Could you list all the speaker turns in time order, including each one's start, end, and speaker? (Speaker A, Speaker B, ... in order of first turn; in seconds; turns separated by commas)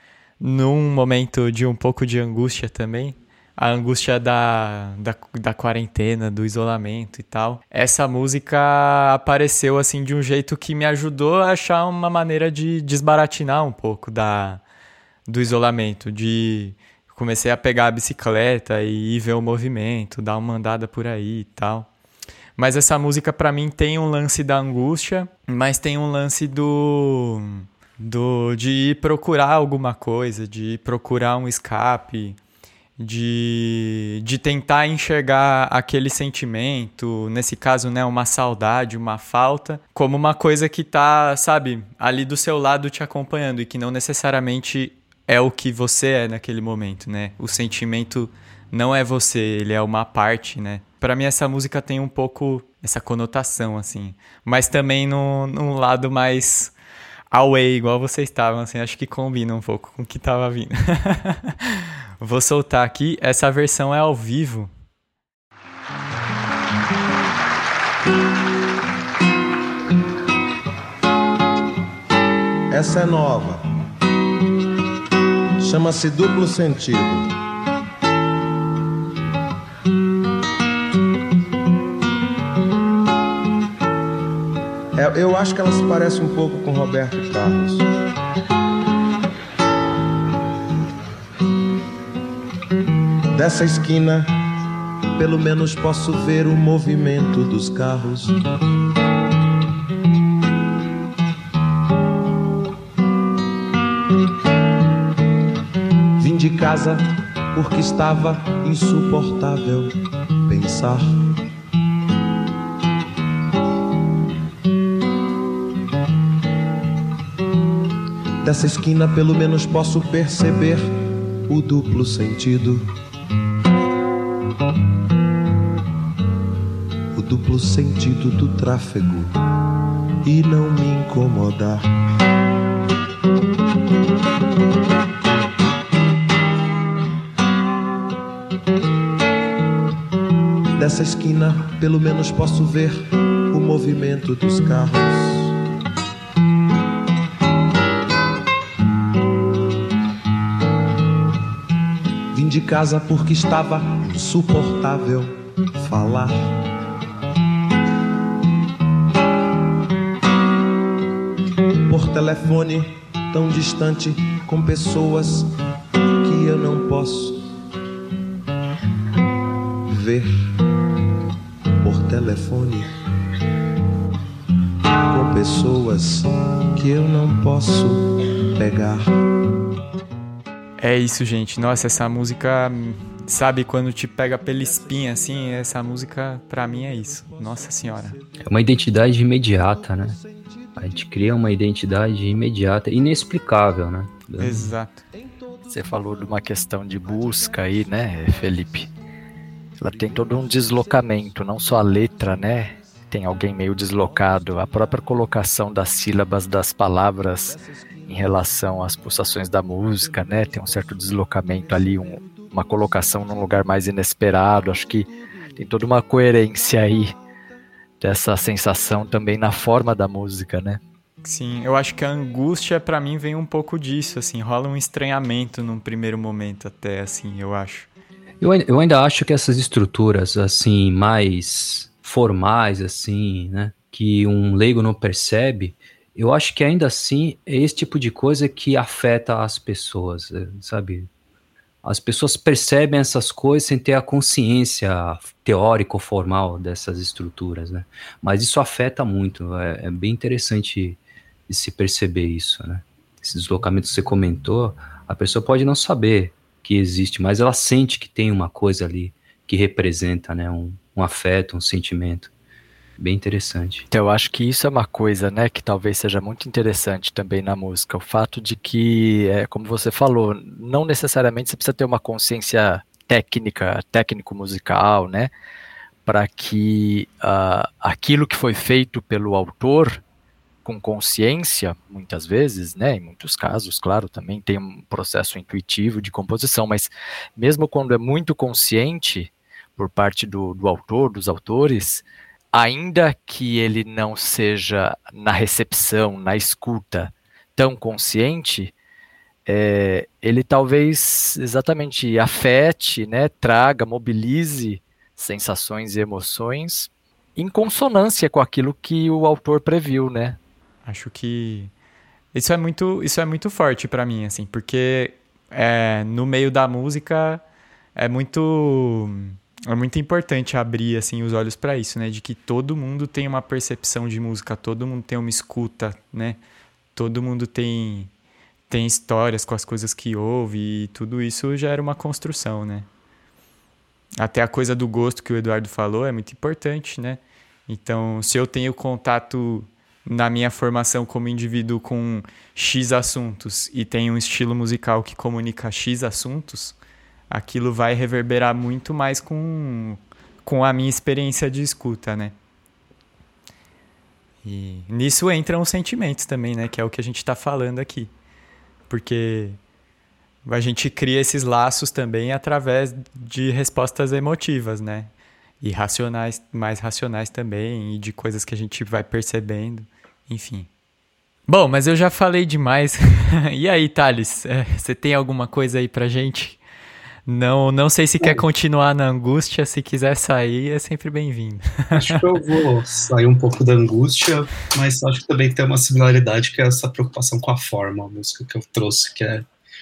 Speaker A: 0.4-14.6, Speaker A: 15.3-21.9, Speaker A: 22.6-32.4, Speaker A: 33.0-56.7, Speaker A: 57.3-64.7, Speaker B: 72.7-73.6, Speaker B: 75.6-77.3, Speaker B: 85.0-87.9, Speaker B: 93.3-94.3, Speaker B: 95.2-98.6, Speaker B: 106.2-110.0, Speaker B: 110.5-111.2, Speaker B: 118.4-122.9, Speaker B: 127.1-129.4, Speaker B: 130.2-131.9, Speaker B: 140.8-145.6, Speaker B: 152.3-156.6, Speaker B: 161.9-165.5, Speaker B: 166.2-167.5, Speaker B: 169.9-170.5, Speaker B: 171.8-172.9, Speaker B: 175.1-179.1, Speaker A: 180.8-188.2, Speaker B: 186.9-188.3, Speaker C: 188.4-190.2, Speaker B: 190.0-190.7, Speaker C: 190.8-194.7, Speaker A: 194.4-195.0, Speaker B: 195.2-195.6, Speaker D: 195.7-198.9, Speaker D: 199.8-217.2, Speaker B: 199.9-200.9, Speaker B: 207.8-208.1, Speaker B: 211.6-212.5, Speaker D: 218.0-220.8, Speaker A: 221.2-227.9, Speaker C: 228.4-241.1, Speaker C: 241.8-262.3, Speaker C: 263.0-263.9, Speaker D: 263.9-275.3, Speaker D: 276.1-280.0, Speaker D: 280.6-298.7, Speaker D: 299.5-310.4, Speaker A: 310.9-311.7, Speaker A: 312.3-317.4, Speaker A: 318.0-326.4, Speaker A: 326.9-328.1, Speaker A: 328.7-332.9, Speaker A: 334.2-346.8, Speaker A: 347.3-352.4, Speaker A: 354.4-358.1, Speaker A: 358.9-359.6, Speaker A: 360.4-370.7, Speaker A: 371.5-376.6, Speaker A: 377.3-382.2, Speaker E: 381.9-389.4